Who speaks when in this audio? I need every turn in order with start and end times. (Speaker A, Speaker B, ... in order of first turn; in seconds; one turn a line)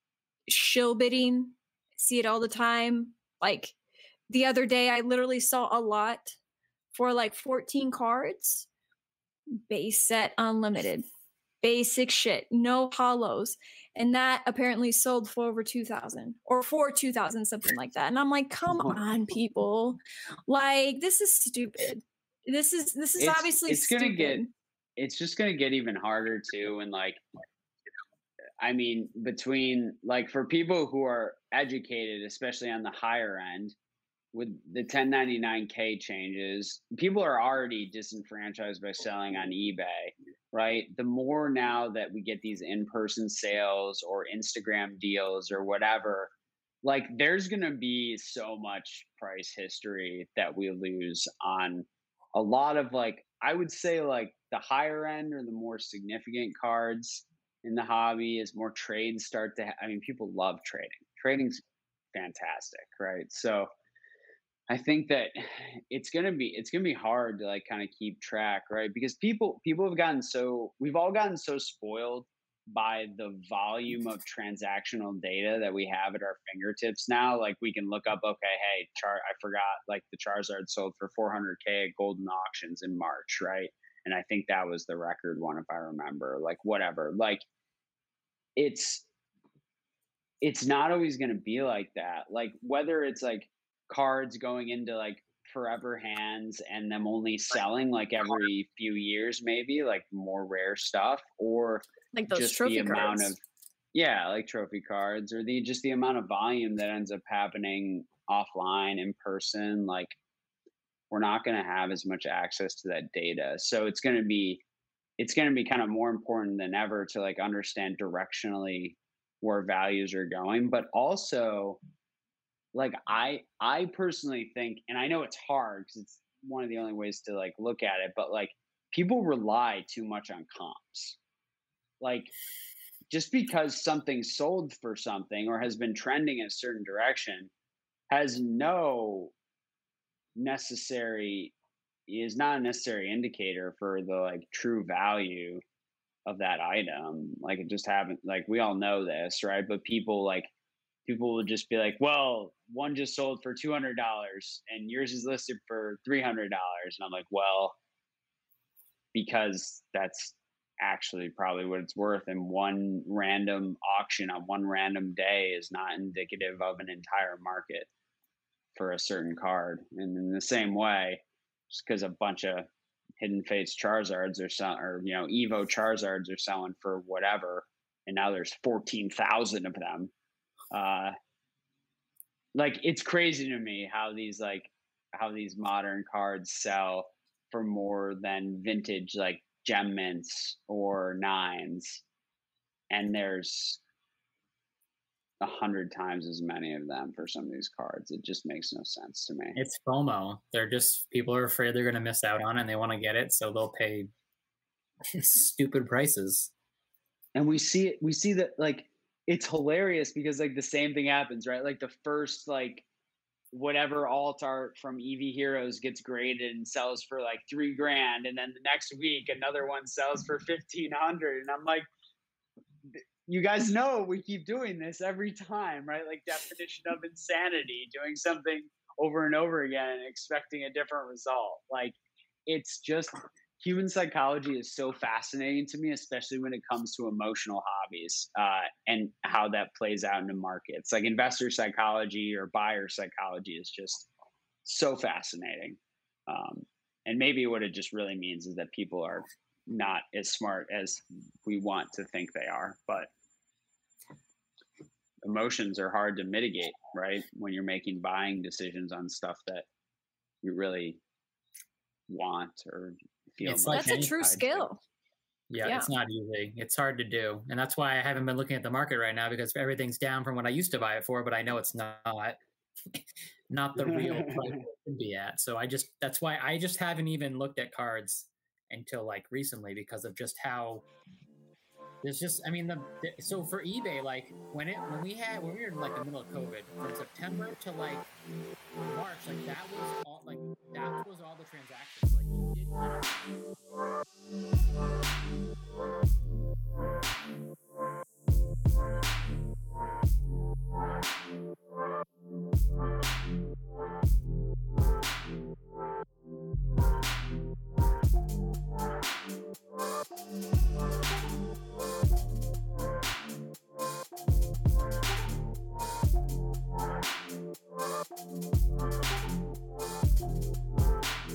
Speaker A: 0.5-3.8
Speaker A: 4.3-6.4
Speaker A: 6.9-8.7
Speaker A: 9.5-11.0
Speaker A: 11.6-24.5
Speaker B: 23.2-24.4
Speaker B: 25.0-27.2
Speaker B: 28.6-33.7
Speaker B: 34.3-46.3
Speaker B: 46.8-61.6
Speaker B: 62.1-63.7
Speaker B: 64.7-87.4
Speaker B: 88.5-89.0
Speaker B: 90.4-103.4
Speaker A: 102.1-103.3
Speaker B: 103.9-110.1
Speaker B: 111.1-114.6
Speaker B: 115.2-121.8
Speaker B: 122.7-131.2
Speaker B: 132.0-132.3
Speaker B: 133.1-137.5
Speaker B: 138.1-139.3
Speaker B: 140.3-141.5
Speaker B: 142.1-145.6
Speaker B: 146.2-150.5
Speaker B: 151.1-157.8
Speaker B: 159.1-167.9
Speaker B: 168.7-172.7
Speaker B: 173.2-180.1
Speaker B: 180.7-181.1
Speaker B: 182.5-192.0
Speaker B: 192.9-193.8
Speaker B: 195.4-199.6
Speaker C: 199.5-204.1
Speaker C: 205.1-206.5
Speaker B: 207.3-212.8
Speaker B: 213.5-221.8
Speaker B: 223.0-231.9
Speaker B: 232.5-244.1
Speaker B: 244.6-253.1
Speaker B: 255.2-259.6
Speaker B: 260.4-261.0
Speaker B: 262.1-264.7
Speaker C: 263.4-264.4
Speaker A: 263.7-264.8
Speaker C: 265.5-272.4
Speaker A: 265.6-265.9
Speaker C: 272.9-280.8
Speaker B: 273.8-274.6
Speaker C: 282.0-288.1
Speaker C: 288.8-293.3